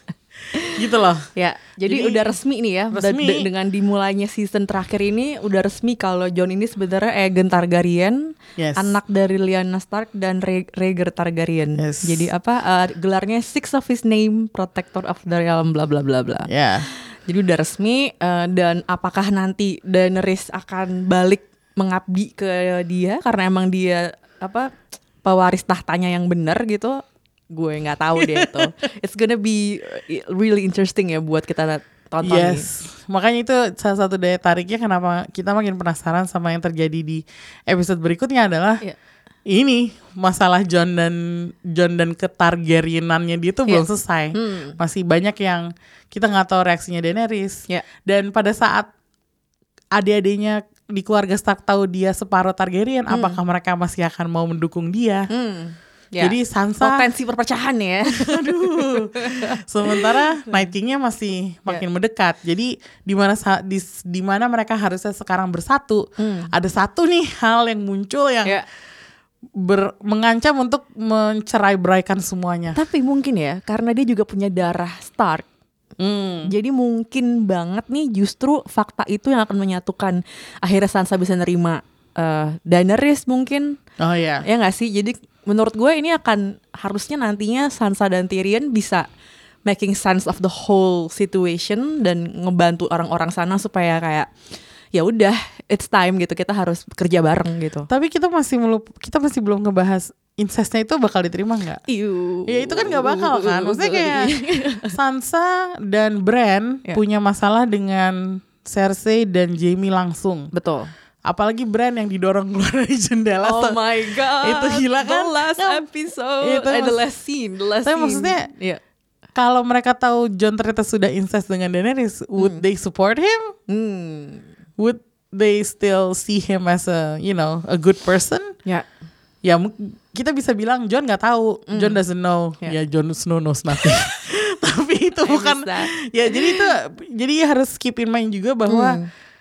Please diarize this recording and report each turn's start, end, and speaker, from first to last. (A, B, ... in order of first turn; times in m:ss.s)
0:00.7-0:01.3 A
0:01.4-0:27.0 B
0:01.8-0:02.3 A
0:02.9-0:03.4 A
0:08.6-0:09.0 A
0:11.8-0:12.3 A
0:16.5-0:16.9 A
0:27.5-0:32.6 B
0:28.2-0:28.7 A
0:32.2-0:38.8 A
0:39.5-0:48.9 A
0:43.7-0:44.8 B
0:50.0-0:55.3 A
0:53.1-0:53.4 B
0:55.3-1:00.0 B
0:56.2-0:57.0 A
0:58.2-1:08.6 A
1:06.2-1:06.5 B
1:09.6-1:12.8 A
1:12.8-1:15.4 B
1:16.0-1:16.5 A
1:16.4-1:23.8 B
1:24.0-1:24.4 A
1:24.4-1:29.0 B
1:29.6-1:34.3 B
1:34.9-1:37.9 B
1:37.9-1:41.8 A
1:41.9-1:44.9 B
1:42.5-1:44.3 A
1:44.9-1:50.5 A
1:50.5-1:50.9 B
1:51.2-1:53.8 A
1:53.4-1:58.8 B
1:54.4-1:55.9 A
1:56.4-1:57.0 A
1:57.8-1:58.4 A
1:59.4-2:03.5 A
2:03.7-2:04.4 B
2:04.8-2:08.5 A
2:09.4-2:19.0 A
2:11.7-2:12.0 B
2:15.2-2:16.7 B
2:18.7-2:19.1 B